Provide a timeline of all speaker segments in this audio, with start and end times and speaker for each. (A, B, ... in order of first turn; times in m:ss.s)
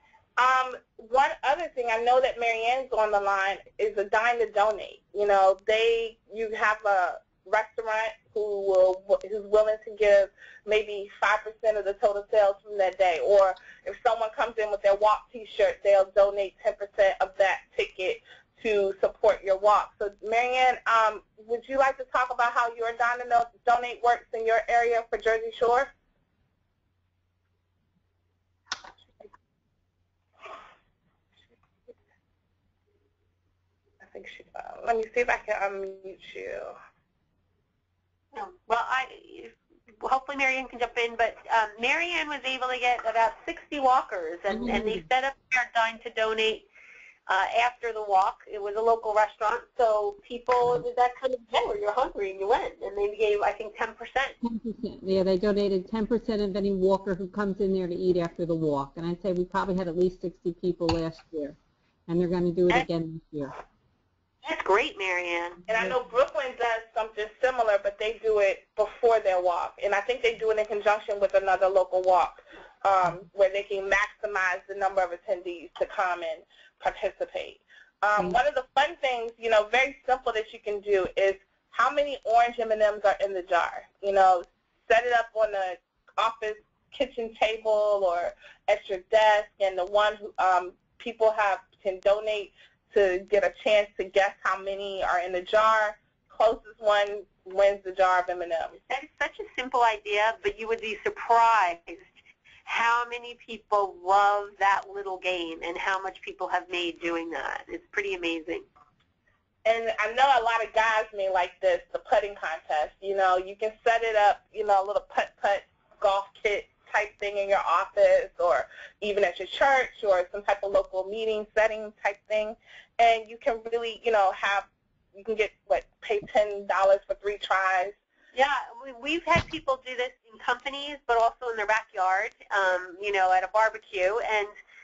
0:00.4-0:25.9 A
0:34.0-0:36.8 A
0:38.3-0:46.6 B
0:44.5-0:45.0 C
0:47.3-0:54.4 B
0:54.4-1:03.5 C
1:04.4-1:05.6 B
1:05.7-1:38.8 A
1:38.9-1:42.0 B
1:42.6-1:48.7 B
1:49.6-2:08.0 A
2:08.3-2:14.5 B